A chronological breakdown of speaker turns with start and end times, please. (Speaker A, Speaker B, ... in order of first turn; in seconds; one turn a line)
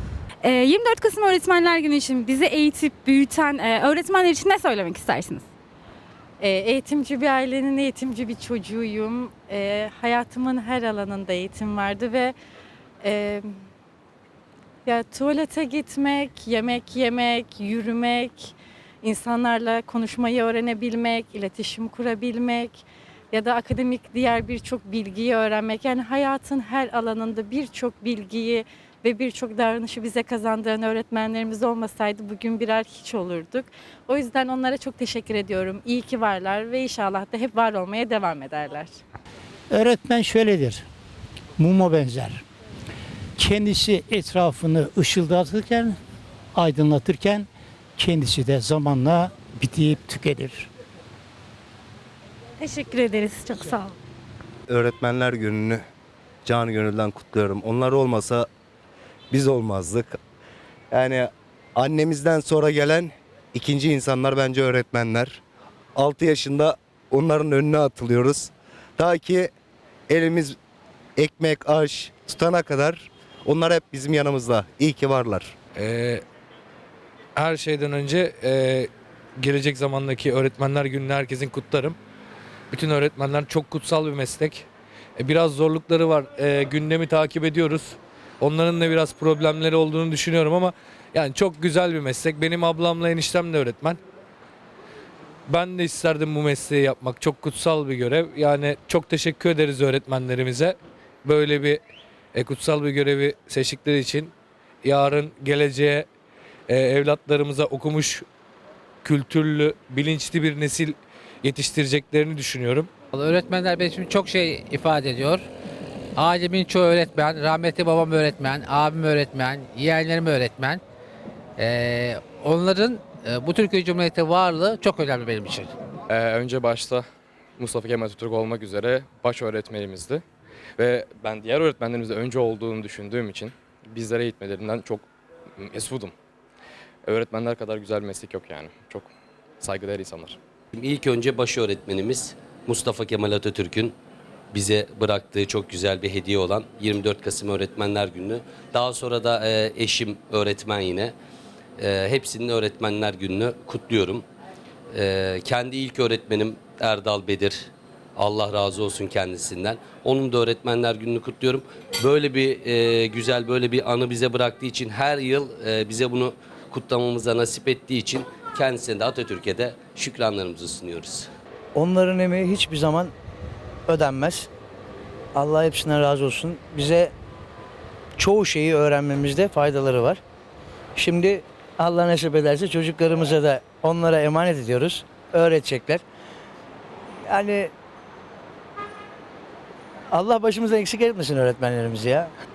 Speaker A: 0.4-5.5
Speaker B: 6.4-12.3
Speaker B: 13.0-13.5
Speaker B: 14.8-39.0
Speaker C: 39.7-40.9
Speaker C: 41.6-42.4
Speaker C: 43.4-46.0
Speaker C: 46.5-50.7
Speaker A: 52.6-54.0
Speaker D: 54.7-55.8
Speaker D: 56.5-58.5
Speaker D: 59.3-60.2
Speaker D: 60.9-65.4
Speaker D: 66.0-69.5
Speaker D: 70.1-70.6
Speaker D: 71.2-75.5
Speaker E: 75.8-76.2
Speaker E: 77.4-82.0
Speaker E: 82.7-94.0
Speaker E: 95.5-101.8
Speaker E: 102.3-106.1
Speaker E: 106.7-108.2
Speaker E: 109.0-112.9
Speaker F: 113.1-115.5
Speaker F: 116.2-120.8
Speaker F: 121.6-125.7
Speaker G: 126.1-127.1
Speaker G: 127.6-130.2
Speaker G: 130.8-135.1
Speaker G: 135.6-136.1
Speaker G: 137.1-140.4
Speaker H: 140.7-143.9
Speaker H: 144.5-151.1
Speaker H: 151.8-154.2
Speaker H: 154.9-171.3
Speaker I: 171.8-173.1
Speaker I: 173.9-174.5
Speaker I: 175.3-177.1
Speaker I: 178.2-180.2
Speaker I: 181.0-186.0
Speaker I: 187.3-187.7
Speaker I: 190.1-192.3